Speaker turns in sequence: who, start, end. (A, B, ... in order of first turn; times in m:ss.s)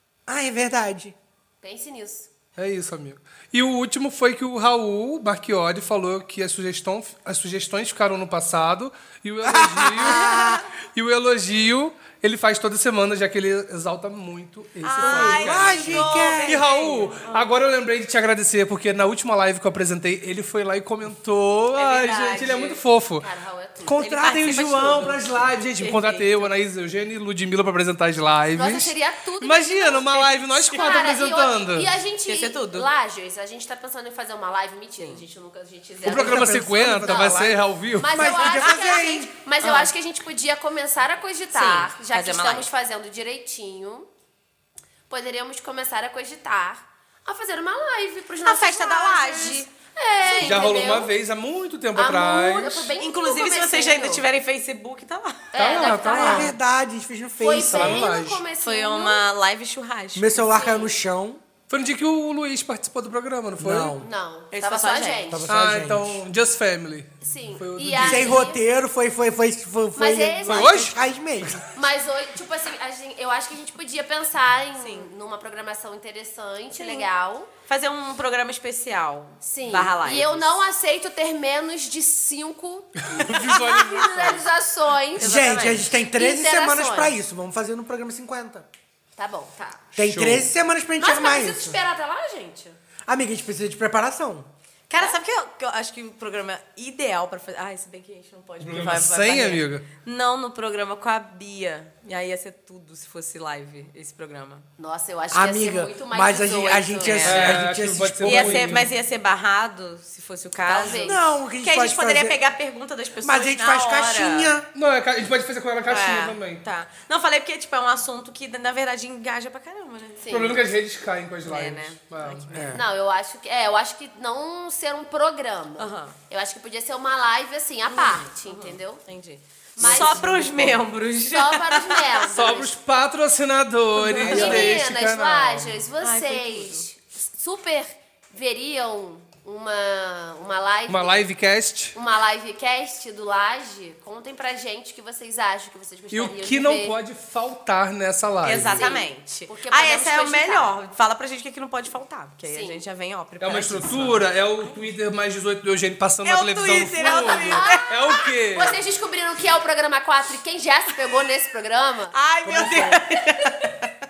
0:00.3-0:01.2 A
0:01.6-0:02.3 B
0:02.6-0:23.3 C
0:09.4-0:10.6 A
0:10.0-0:10.6 D
0:14.8-0:17.5 D
0:15.0-0:16.7 A
0:21.7-0:22.8 D
0:23.2-0:24.0 B
0:23.8-0:31.9 C
0:24.0-0:26.5 D
0:28.5-0:44.1 B
0:30.6-0:31.1 D
0:32.3-0:32.9 D
0:36.0-0:38.4 C
0:36.0-0:39.3 A
0:39.6-0:39.9 D
0:41.5-0:42.7 D
0:45.1-0:51.1 B
0:48.4-0:49.7 D
0:50.2-0:50.6 D
0:50.4-0:52.9 C
0:52.0-0:54.2 B
0:53.0-0:56.5 D
0:55.5-0:56.5 B
0:55.6-0:56.5 C
0:56.1-0:58.1 A
0:57.4-0:59.2 B
0:57.7-0:58.4 C
0:58.6-1:00.9 D
1:00.2-1:01.4 A
1:01.7-1:04.0 C
1:03.6-1:04.1 A
1:04.0-1:05.5 B
1:04.5-1:05.3 D
1:05.3-1:06.2 A
1:05.5-1:08.4 C
1:07.2-1:08.6 B
1:08.0-1:11.6 A
1:10.0-1:10.8 B
1:10.4-1:11.6 C
1:11.7-1:17.5 B
1:14.8-1:15.1 D
1:16.7-1:17.1 D
1:17.7-1:20.7 D
1:19.4-1:25.6 B
1:23.0-1:24.5 C
1:25.2-1:25.9 D
1:25.2-1:28.7 A
1:26.1-1:27.2 B
1:29.2-1:29.8 B
1:30.0-1:31.8 A
1:30.0-1:30.5 C
1:31.0-1:32.8 B
1:33.1-1:34.5 A
1:34.9-1:44.7 D
1:38.6-1:39.8 C
1:44.8-1:47.3 B
1:45.3-1:48.9 A
1:47.0-1:47.7 D
1:47.2-1:48.9 C
1:48.2-1:54.6 D
1:50.7-1:51.2 B
1:51.0-1:52.4 A
1:53.2-1:54.7 A
1:54.7-1:56.6 C
1:55.9-2:00.3 D
2:00.2-2:00.6 B
2:00.3-2:02.8 C
2:01.4-2:02.8 D
2:02.5-2:02.8 A
2:02.7-2:09.0 B
2:05.8-2:06.2 D
2:07.9-2:12.2 D
2:09.8-2:10.7 B
2:09.8-2:10.5 A
2:11.3-2:12.7 B
2:12.3-2:15.8 C
2:14.0-2:14.8 D
2:14.2-2:21.3 B
2:16.0-2:16.8 D
2:20.9-2:22.0 C
2:21.9-2:27.0 B
2:26.1-2:28.9 C
2:28.4-2:34.8 D
2:28.7-2:30.7 B
2:32.5-2:32.8 B
2:33.4-2:38.8 C
2:36.2-2:38.2 D
2:37.2-2:42.2 B
2:42.1-2:43.9 D
2:42.4-2:43.0 A